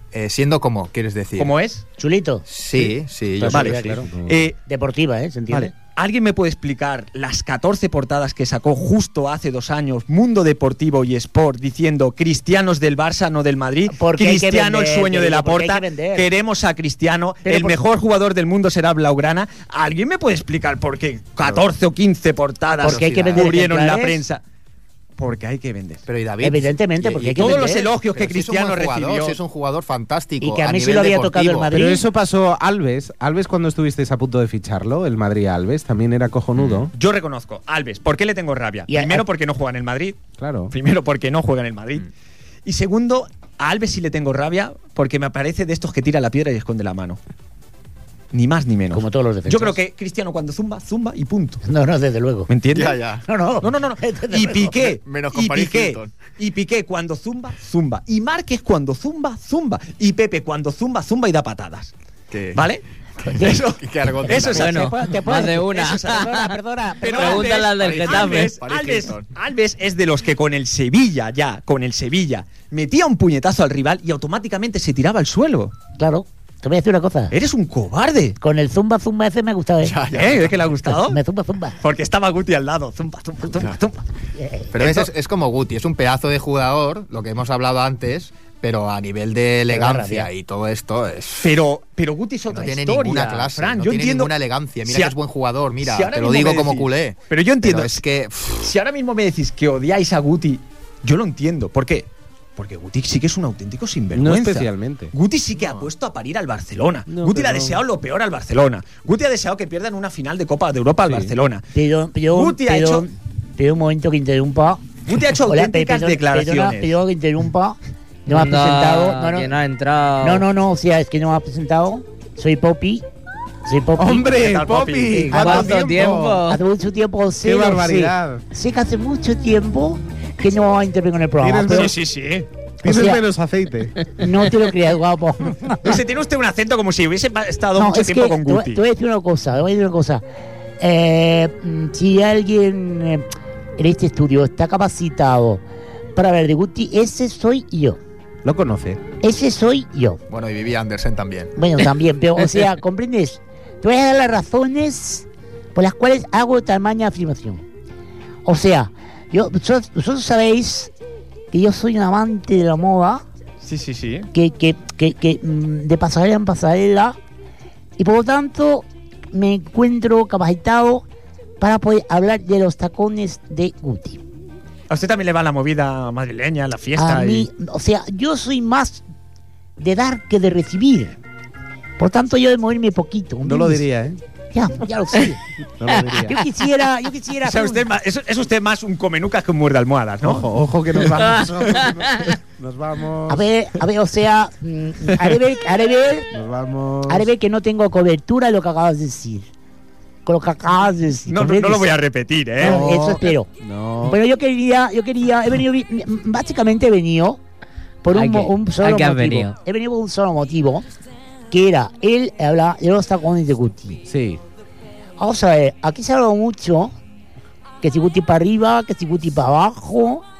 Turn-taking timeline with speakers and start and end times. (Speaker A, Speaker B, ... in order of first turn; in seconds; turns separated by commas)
Speaker A: 0.1-1.5, Speaker B: 1.4-1.8, Speaker C: 2.0-2.4, Speaker A: 2.5-4.0, Speaker C: 3.4-4.1, Speaker B: 3.5-4.5, Speaker D: 4.1-4.5, Speaker C: 4.6-5.7, Speaker B: 5.5-24.4, Speaker C: 13.9-16.3, Speaker C: 17.4-17.8, Speaker C: 22.8-24.2, Speaker A: 22.8-23.5, Speaker B: 25.2-26.0, Speaker A: 26.1-31.7, Speaker C: 26.4-27.8, Speaker B: 27.4-29.4, Speaker C: 30.4-32.0, Speaker D: 31.7-36.9, Speaker A: 36.5-36.9, Speaker B: 36.9-40.2, Speaker C: 38.9-39.2, Speaker D: 40.4-40.7, Speaker B: 40.7-42.1, Speaker B: 42.6-47.2, Speaker B: 48.3-51.6, Speaker C: 48.9-49.8, Speaker C: 51.6-52.5, Speaker B: 52.5-53.0, Speaker A: 52.7-53.2, Speaker C: 53.2-54.8, Speaker B: 53.6-61.9, Speaker A: 54.9-56.1, Speaker A: 62.3-62.6, Speaker B: 62.5-62.8, Speaker C: 63.2-63.6, Speaker B: 63.3-66.4, Speaker A: 63.4-64.8, Speaker C: 64.2-67.6, Speaker E: 64.5-66.5, Speaker B: 67.0-75.7, Speaker E: 67.0-68.5, Speaker A: 67.7-69.2, Speaker C: 76.0-77.3, Speaker B: 77.3-78.3, Speaker C: 78.4-80.0, Speaker A: 79.8-80.6, Speaker B: 80.1-81.2, Speaker C: 80.8-81.8, Speaker B: 81.8-84.0, Speaker C: 84.4-84.7, Speaker A: 84.7-91.5, Speaker B: 84.8-85.1, Speaker C: 89.7-90.3, Speaker B: 91.4-94.3, Speaker A: 92.5-98.7, Speaker B: 94.8-95.1, Speaker B: 95.8-98.0, Speaker B: 98.6-111.7, Speaker D: 104.1-105.1, Speaker A: 105.6-105.9, Speaker D: 107.1-107.8, Speaker D: 111.0-111.3, Speaker C: 111.7-119.5, Speaker B: 112.3-113.0, Speaker B: 115.1-117.0, Speaker E: 118.3-120.5, Speaker C: 120.2-123.0, Speaker C: 123.7-124.4, Speaker D: 124.0-126.5, Speaker B: 124.2-125.2, Speaker C: 125.1-125.8, Speaker E: 125.3-126.6, Speaker C: 126.5-131.9, Speaker D: 127.4-128.4, Speaker D: 131.4-132.0, Speaker B: 131.7-132.5, Speaker D: 132.8-133.9, Speaker C: 132.8-133.2, Speaker C: 134.2-136.0, Speaker B: 135.8-138.8, Speaker C: 137.8-140.2, Speaker C: 140.8-143.2, Speaker C: 143.8-145.6, Speaker C: 146.2-148.0, Speaker D: 148.4-149.0, Speaker C: 149.2-150.2, Speaker A: 150.3-151.5, Speaker C: 151.6-157.6, Speaker C: 158.4-160.9, Speaker C: 161.5-163.2, Speaker B: 163.6-164.3, Speaker C: 164.3-167.2, Speaker C: 168.0-171.0, Speaker C: 171.6-174.2, Speaker B: 174.9-177.5, Speaker C: 177.0-179.0, Speaker C: 179.8-181.2, Speaker C: 182.0-183.8, Speaker D: 183.4-184.2, Speaker C: 184.5-185.4, Speaker D: 185.8-186.4, Speaker C: 186.0-187.9, Speaker B: 187.4-190.5, Speaker D: 190.2-193.4, Speaker C: 193.3-196.3, Speaker D: 196.3-197.3, Speaker C: 197.1-199.5, Speaker C: 200.2-201.9, Speaker B: 201.3-202.8, Speaker C: 202.6-203.5, Speaker D: 202.6-204.2, Speaker C: 204.0-207.4, Speaker C: 208.0-210.8, Speaker E: 208.1-209.5, Speaker C: 211.5-214.0, Speaker D: 214.1-214.4, Speaker C: 215.2-216.9, Speaker C: 217.8-220.2